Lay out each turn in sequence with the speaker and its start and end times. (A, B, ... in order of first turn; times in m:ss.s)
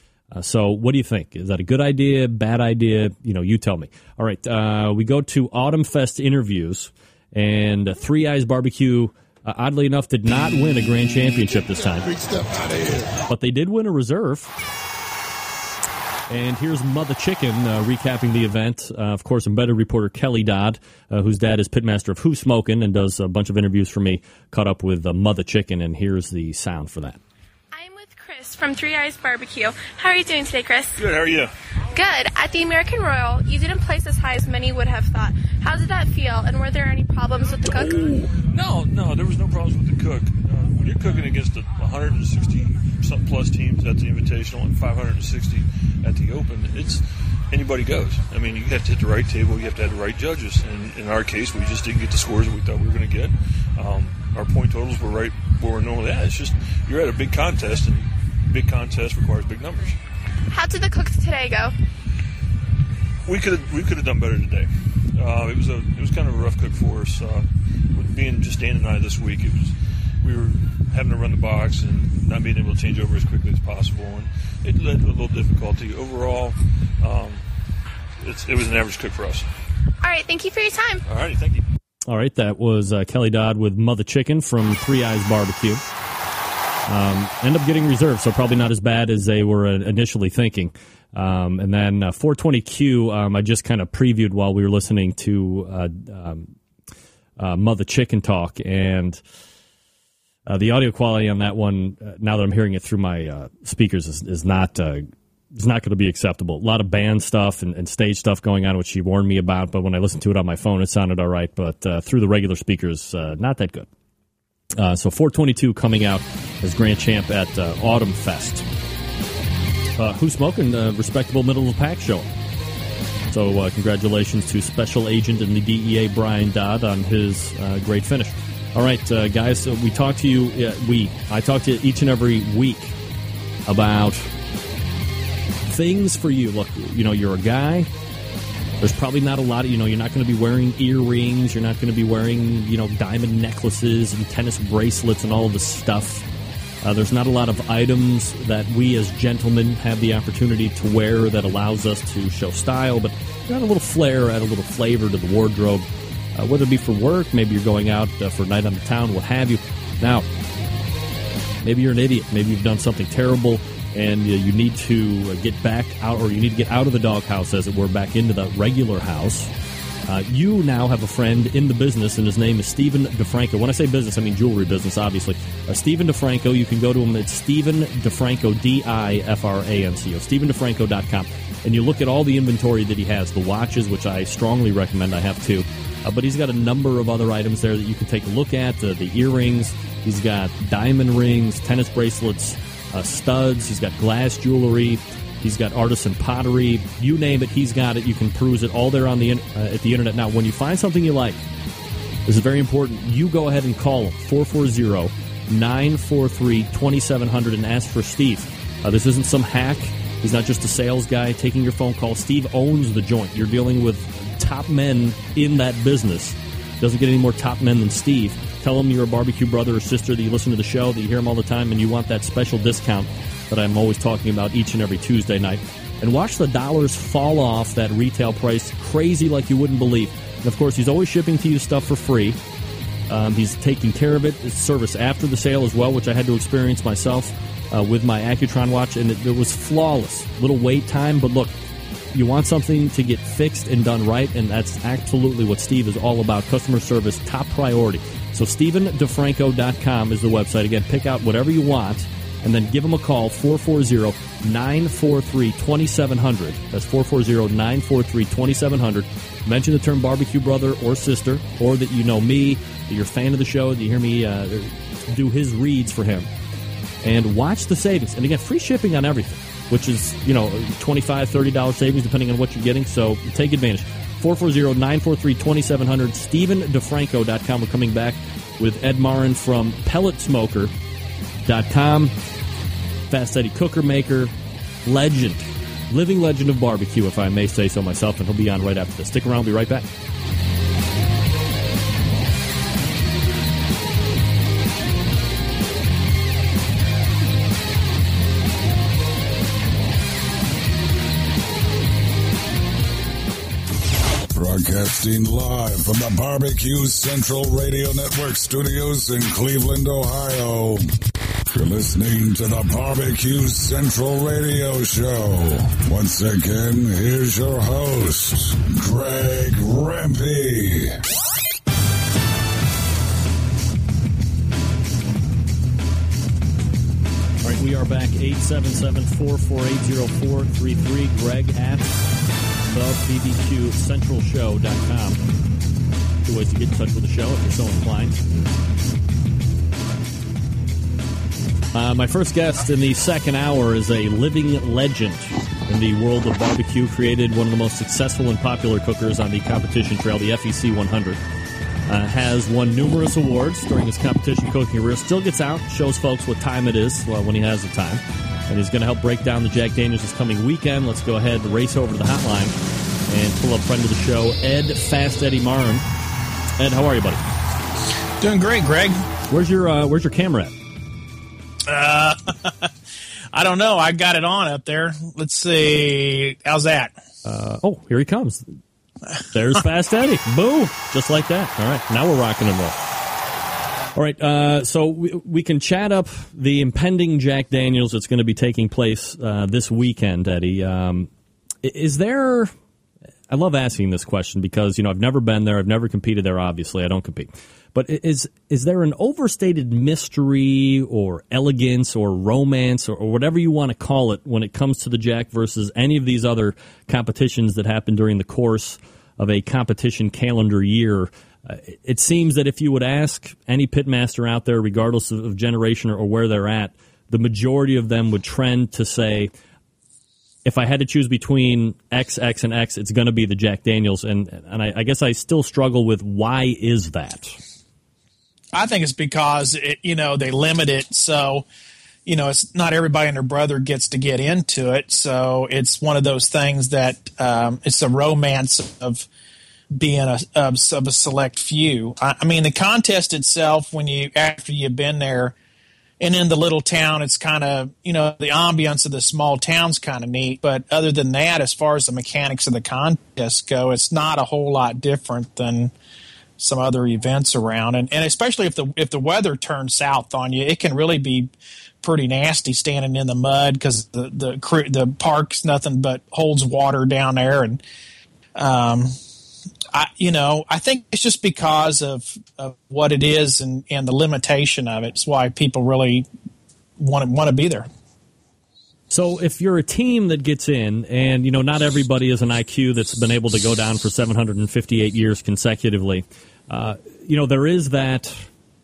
0:00.3-0:12.2 A
0:13.3-0:14.5 A
0:16.3-0:27.2 A
0:27.7-0:31.0 B
0:31.0-0:31.5 C
0:31.9-0:38.1 B
0:38.4-1:00.0 C
1:00.5-1:01.7 B
1:03.2-1:17.4 C
1:18.2-1:19.5 C
1:20.0-1:21.0 B
1:21.1-1:21.6 C
1:22.1-1:25.8 A
1:26.9-1:36.5 A
1:37.4-1:39.2 A
1:40.5-1:53.9 A
1:54.8-1:58.6 A
2:00.0-2:02.3 A
2:03.3-2:13.0 A
2:13.7-2:14.3 A
2:15.7-2:17.9 A
2:18.8-2:26.2 A
2:26.8-2:40.3 A
2:41.6-2:49.5 A
2:50.1-3:21.4 A
3:22.3-3:52.4 A
3:53.1-4:01.5 A
4:02.1-4:26.3 A
4:27.0-4:40.7 A
4:41.5-4:42.1 A
4:43.1-4:44.3 A
4:44.8-4:49.9 A
5:04.3-5:10.9 D
5:11.5-5:21.0 D
5:27.4-5:31.9 A
5:32.7-5:35.2 A
5:36.3-5:38.2 A
5:41.7-5:51.2 A
5:51.9-6:02.6 A
6:03.1-6:05.8 A
6:06.6-6:07.2 A
6:08.2-6:09.0 E
6:09.3-6:10.5 A
6:11.7-6:12.7 E
6:13.3-6:17.0 E
6:17.2-6:18.4 A
6:19.3-6:22.8 A
6:24.0-6:31.1 A
6:31.6-6:32.5 A
6:33.3-6:59.3 A
7:00.4-7:07.4 A
7:08.5-7:11.4 E
7:12.1-7:19.1 E
7:19.7-7:25.3 E
7:26.0-7:35.7 E
7:36.4-7:41.3 E
7:41.8-7:47.6 E
7:48.4-7:49.0 E
7:49.7-7:56.1 E
7:56.8-7:57.7 E
7:58.9-8:08.3 A